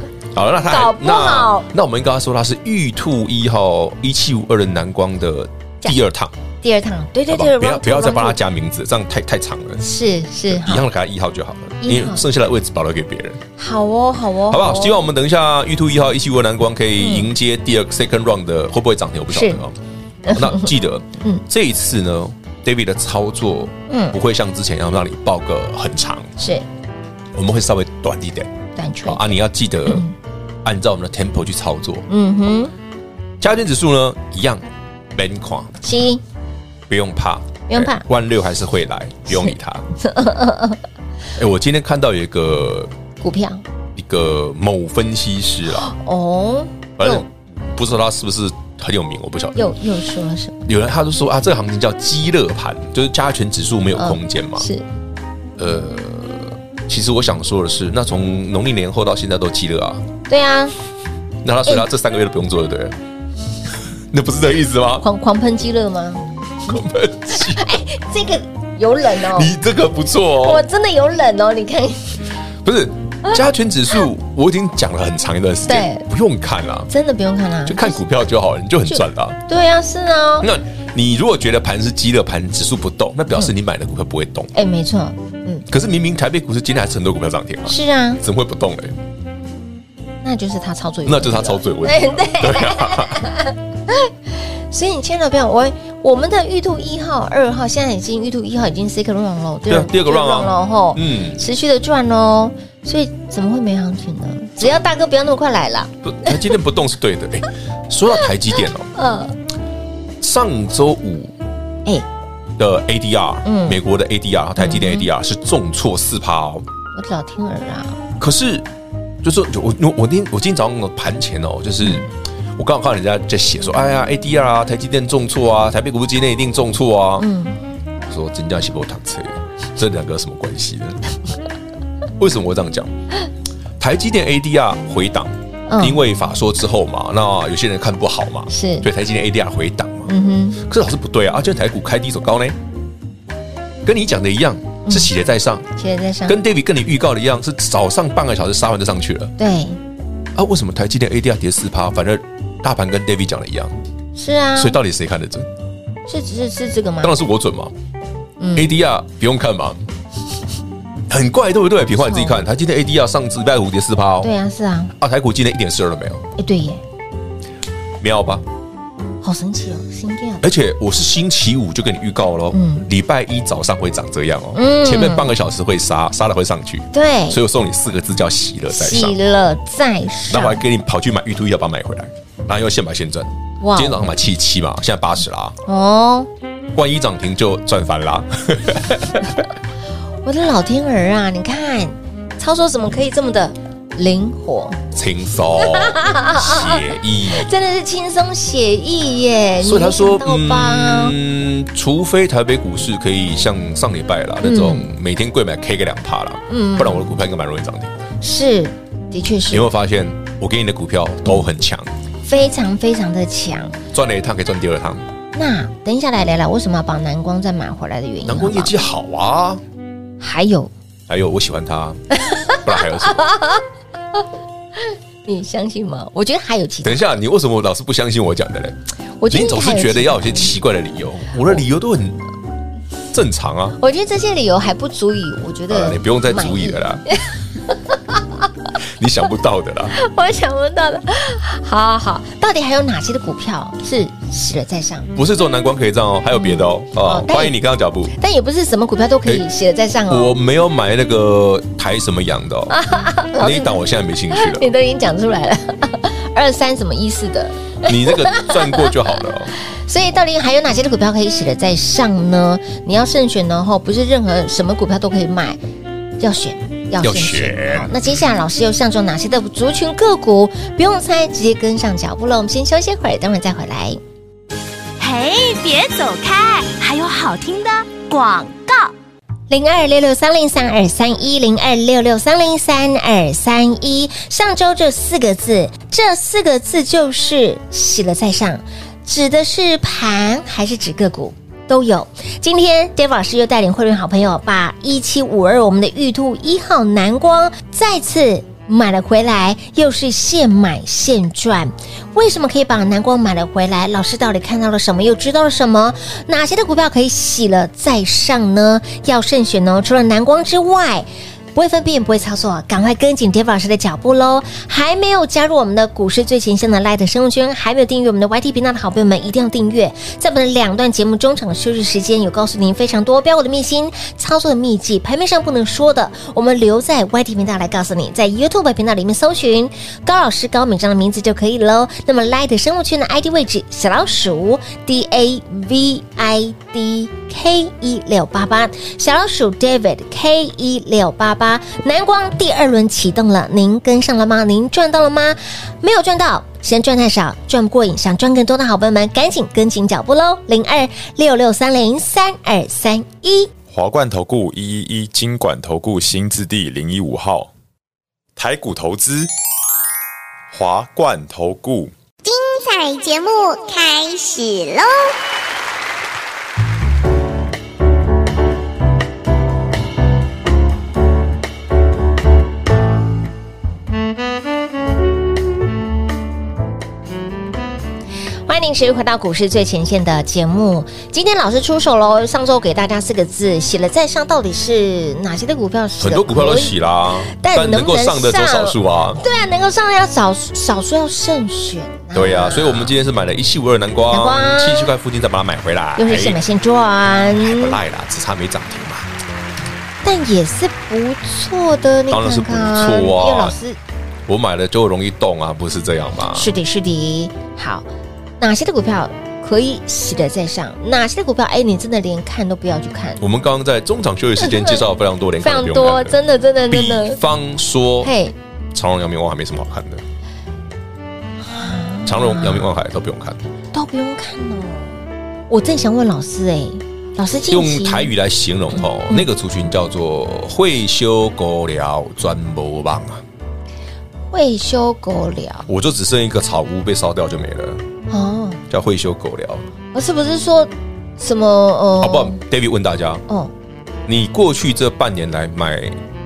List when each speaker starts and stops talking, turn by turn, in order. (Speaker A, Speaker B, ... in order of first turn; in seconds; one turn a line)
Speaker A: 0.3-6.3
Speaker B: 0.7-1.7
Speaker B: 6.6-8.4
Speaker A: 7.3-9.8
Speaker B: 9.8-10.8
Speaker A: 10.5-13.4
Speaker B: 11.8-12.2
Speaker B: 13.6-15.1
Speaker A: 14.5-19.8
Speaker B: 17.0-17.3
Speaker B: 19.3-19.6
Speaker B: 20.2-21.4
Speaker A: 20.3-26.3
Speaker B: 23.9-24.1
Speaker B: 26.4-26.6
Speaker A: 27.3-28.5
Speaker B: 28.8-29.3
Speaker A: 29.0-30.0
Speaker B: 29.9-30.1
Speaker A: 30.6-32.1
Speaker B: 32.1-32.7
Speaker A: 33.4-35.8
Speaker B: 35.8-36.2
Speaker A: 36.9-39.8
Speaker B: 37.7-38.0
Speaker B: 39.3-40.8
Speaker A: 41.4-42.9
Speaker B: 43.2-43.6
Speaker A: 43.9-45.9
Speaker B: 45.7-47.2
Speaker A: 47.0-49.6
Speaker B: 49.5-50.6
Speaker A: 50.6-54.7
Speaker B: 54.0-54.8
Speaker A: 55.6-60.0
Speaker B: 60.3-60.7
Speaker A: 61.4-63.0
Speaker A: 64.1-65.0
Speaker B: 65.0-66.2
Speaker A: 66.6-67.7
Speaker B: 67.3-69.5
Speaker A: 69.2-70.6
Speaker B: 70.4-72.2
Speaker A: 72.6-76.9
Speaker B: 75.7-76.0
Speaker B: 76.9-78.0
Speaker A: 77.6-79.4
Speaker B: 78.9-80.5
Speaker A: 80.4-84.5
Speaker B: 84.5-85.7
Speaker A: 85.7-89.0
Speaker B: 87.7-88.2
Speaker B: 90.2-106.4
Speaker A: 91.0-93.2
Speaker A: 99.7-101.4
Speaker A: 106.0-108.9
Speaker B: 108.9-109.3
Speaker A: 110.2-111.3
Speaker A: 112.6-116.7
Speaker B: 113.4-113.8
Speaker B: 114.6-115.1
Speaker B: 116.9-118.0
Speaker A: 118.2-118.7
Speaker A: 119.2-127.3
Speaker B: 127.2-127.6
Speaker A: 128.1-131.0
Speaker A: 132.2-132.9
Speaker A: 133.8-142.6
Speaker B: 135.7-136.0
Speaker B: 138.5-138.9
Speaker B: 140.1-140.6
Speaker A: 143.8-145.7
Speaker B: 144.8-145.1
Speaker B: 145.8-146.4
Speaker A: 146.2-149.3
Speaker B: 149.4-149.8
Speaker A: 150.3-153.7
Speaker B: 154.2-154.8
Speaker A: 154.6-155.5
Speaker B: 156.1-157.2
Speaker A: 157.0-157.7
Speaker B: 158.4-158.7
Speaker A: 158.6-159.8
Speaker A: 161.1-164.3
Speaker B: 162.0-162.4
Speaker B: 164.2-164.9
Speaker A: 164.9-166.2
Speaker B: 166.4-166.8
Speaker A: 168.0-168.4
Speaker B: 169.2-170.5
Speaker A: 170.4-179.2
Speaker B: 172.5-172.8
Speaker B: 174.6-175.3
Speaker B: 176.9-177.4
Speaker B: 178.7-180.6
Speaker A: 180.3-185.6
Speaker B: 183.6-184.1
Speaker B: 185.7-186.3
Speaker A: 186.7-189.5
Speaker B: 190.2-194.8
Speaker A: 194.9-197.5
Speaker B: 195.6-201.2
Speaker A: 199.6-207.9
Speaker B: 204.4-204.9
Speaker B: 206.5-207.1
Speaker B: 208.2-209.7
Speaker A: 209.5-211.9
Speaker B: 212.2-213.8
Speaker A: 213.9-215.1
Speaker B: 215.3-218.7
Speaker A: 218.2-219.6
Speaker B: 220.2-220.7
Speaker A: 221.1-223.2
Speaker B: 222.2-223.6
Speaker B: 224.8-227.0
Speaker A: 226.8-232.2
Speaker B: 229.2-230.6
Speaker A: 233.1-233.8
Speaker B: 233.8-238.2
Speaker A: 235.7-237.1
Speaker A: 238.8-239.9
Speaker B: 239.9-245.1
Speaker A: 245.1-248.1
Speaker B: 246.3-247.6
Speaker B: 248.1-250.3
Speaker A: 250.1-252.8
Speaker B: 252.7-253.8
Speaker A: 253.4-254.7
Speaker B: 254.3-258.9
Speaker A: 257.8-259.5
Speaker B: 259.6-265.6
Speaker B: 266.2-274.0
Speaker A: 267.0-267.9
Speaker C: 275.0-278.9
Speaker B: 279.5-353.5
Speaker D: 353.7-357.5
Speaker D: 358.4-359.3
Speaker D: 360.5-361.9
Speaker E: 362.2-365.1
Speaker B: 378.4-386.8
Speaker A: 386.0-389.2
Speaker B: 387.3-393.0
Speaker A: 392.1-396.4
Speaker B: 394.1-394.9
Speaker B: 396.0-397.8
Speaker A: 397.4-399.1
Speaker B: 400.0-403.8
Speaker A: 402.1-403.6
Speaker A: 404.3-406.5
Speaker B: 406.3-407.9
Speaker B: 408.4-413.2
Speaker A: 413.2-416.2
Speaker B: 414.4-414.8
Speaker B: 415.4-417.2
Speaker A: 416.7-418.1
Speaker B: 418.0-418.3
Speaker A: 418.7-420.0
Speaker B: 421.4-422.7
Speaker A: 422.1-423.4
Speaker B: 423.7-428.1
Speaker A: 427.5-433.2
Speaker B: 434.3-435.7
Speaker A: 435.7-437.8
Speaker B: 438.1-438.6
Speaker A: 438.7-439.6
Speaker B: 439.9-442.4
Speaker A: 442.0-443.2
Speaker A: 444.1-446.0